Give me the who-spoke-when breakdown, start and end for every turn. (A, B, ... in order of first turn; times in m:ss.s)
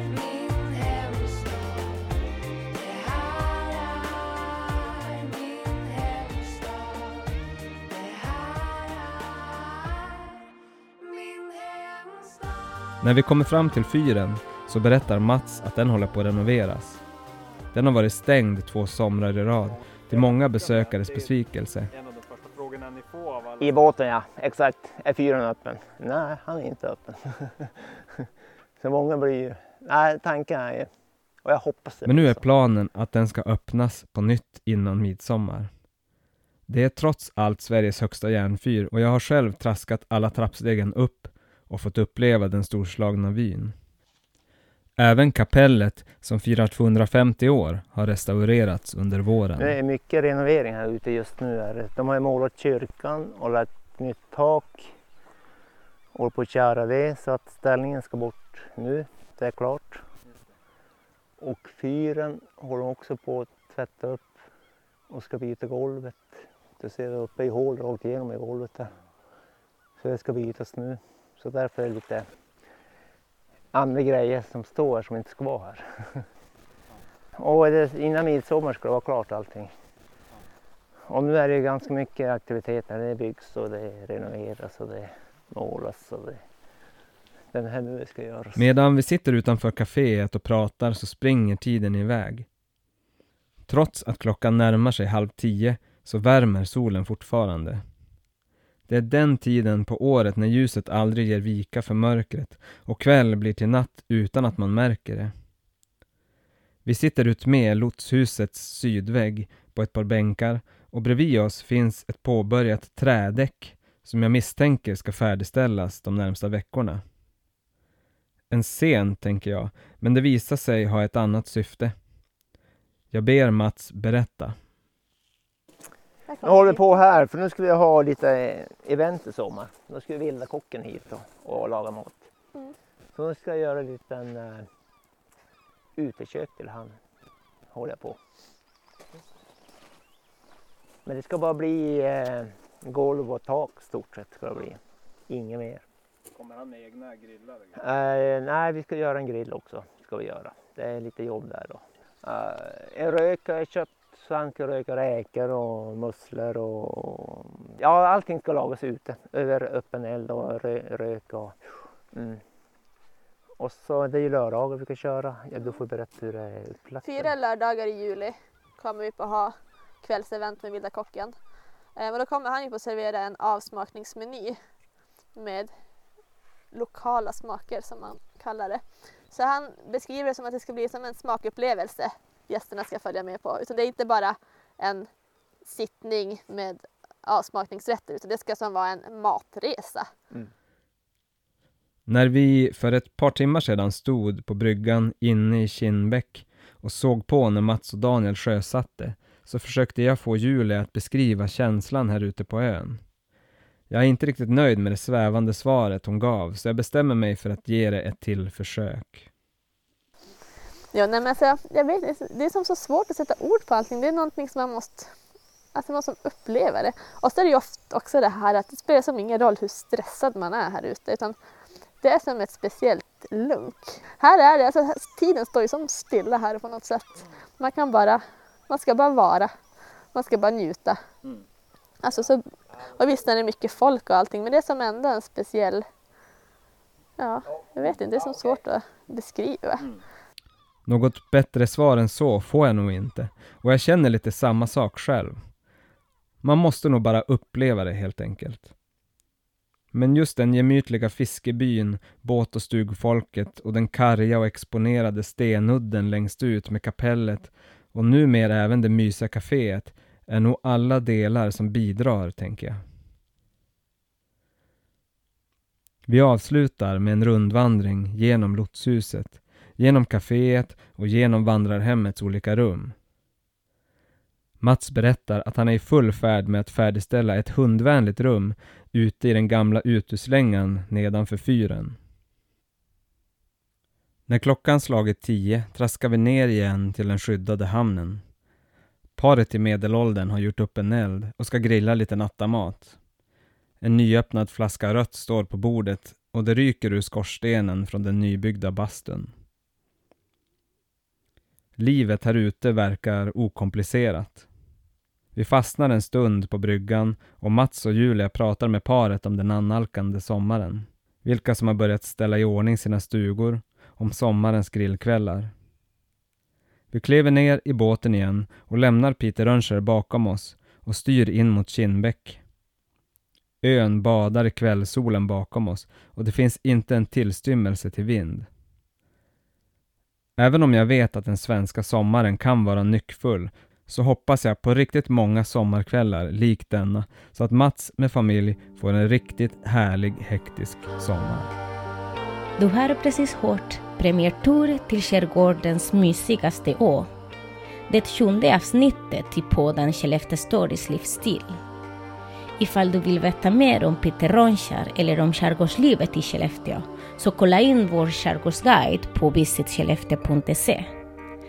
0:13.0-0:17.0 A
0:17.7-0:21.9 A
0:21.9-0:23.8 B
0:23.6-0:28.0 C
0:28.8-0:30.9 C
0:31.4-0:32.4 C
0:32.0-0:35.7 A
0:36.7-0:43.7 A
0:45.0-0:49.8 A
0:49.6-0:54.9 C
0:56.1-1:00.0 C
1:01.4-1:04.4 C
1:05.1-1:08.9 C
1:10.0-1:12.3 C
1:13.7-1:16.2 C
1:17.4-1:19.7 C
1:21.1-1:26.4 C
1:27.5-1:28.7 C
1:28.6-1:32.5 A
1:33.7-1:37.8 A
1:38.9-1:45.3 A
1:46.8-1:57.0 A
1:58.5-2:01.9 A
2:03.1-2:04.5 A
2:06.3-2:06.8 D
2:06.4-2:12.3 C
2:13.1-2:14.6 C
2:16.0-2:17.0 C
2:17.7-2:18.2 C
2:21.0-2:25.8 C
2:26.4-2:27.7 B
2:27.7-2:41.5 C
2:42.1-2:42.4 C
2:43.6-2:47.3 C
2:47.0-2:51.3 D
2:52.0-2:54.6 D
2:55.4-2:55.7 D
2:56.7-3:05.1 D
3:05.6-3:10.1 D
3:12.1-3:23.0 A
3:23.9-3:29.3 A
3:30.9-3:35.1 D
3:35.7-3:41.4 D
3:42.0-3:49.5 D
3:50.1-3:51.0 D
3:52.0-3:55.8 D
3:57.2-3:59.9 D
4:00.9-4:05.4 A
4:06.4-4:08.7 A
4:09.9-4:22.8 A
4:26.1-4:32.9 A
4:34.6-4:42.0 A
4:44.3-4:48.2 A
4:49.2-4:53.0 A
4:53.8-4:59.3 A
5:01.8-5:04.5 A
5:05.3-5:15.5 A
5:16.9-5:22.4 A
5:23.6-5:28.5 A
5:30.4-5:41.5 A
5:42.6-5:47.1 E
5:47.9-5:51.5 E
5:52.6-6:00.8 E